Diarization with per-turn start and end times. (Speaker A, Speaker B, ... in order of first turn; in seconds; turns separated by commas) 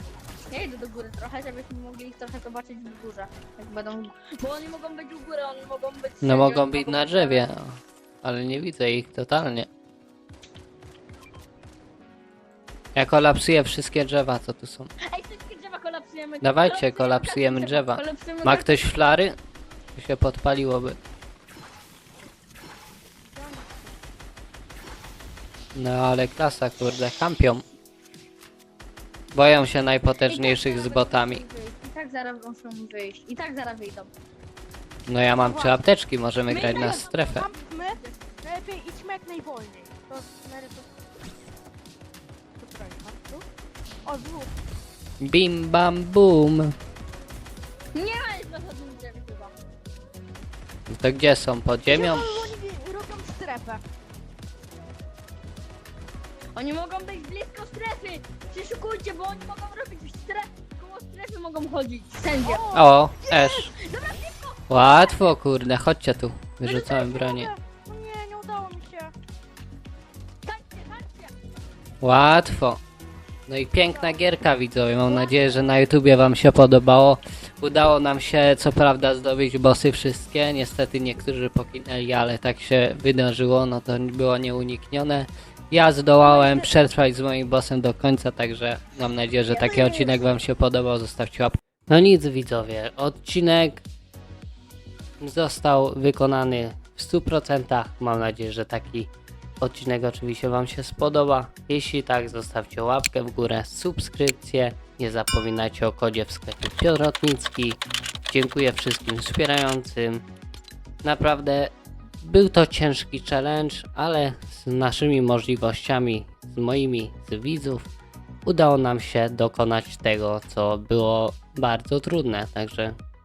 Speaker A: 0.5-7.4, Speaker B: 6.2-9.7, Speaker B: 12.9-14.9, Speaker A: 15.0-18.9, Speaker B: 16.4-19.4, Speaker B: 19.9-21.0, Speaker C: 23.3-24.0, Speaker B: 25.7-27.6, Speaker B: 29.3-31.4, Speaker A: 30.3-34.1, Speaker B: 35.1-37.5, Speaker C: 35.4-35.8, Speaker A: 36.5-38.4, Speaker C: 36.5-40.9, Speaker C: 42.5-43.5, Speaker C: 44.0-44.5, Speaker B: 45.2-46.7, Speaker A: 47.9-49.5, Speaker B: 50.9-52.5, Speaker C: 51.9-53.8, Speaker A: 56.5-62.6, Speaker C: 62.4-63.7, Speaker B: 62.7-63.7, Speaker A: 63.7-65.3, Speaker B: 64.7-67.5, Speaker C: 66.6-69.1, Speaker A: 70.4-71.3, Speaker B: 72.0-72.8, Speaker B: 73.5-93.8, Speaker C: 73.9-74.2, Speaker A: 75.1-75.4, Speaker C: 86.2-86.7, Speaker C: 89.5-90.2, Speaker B: 95.2-99.1, Speaker B: 99.6-110.2, Speaker B: 111.0-117.9, Speaker B: 118.5-123.0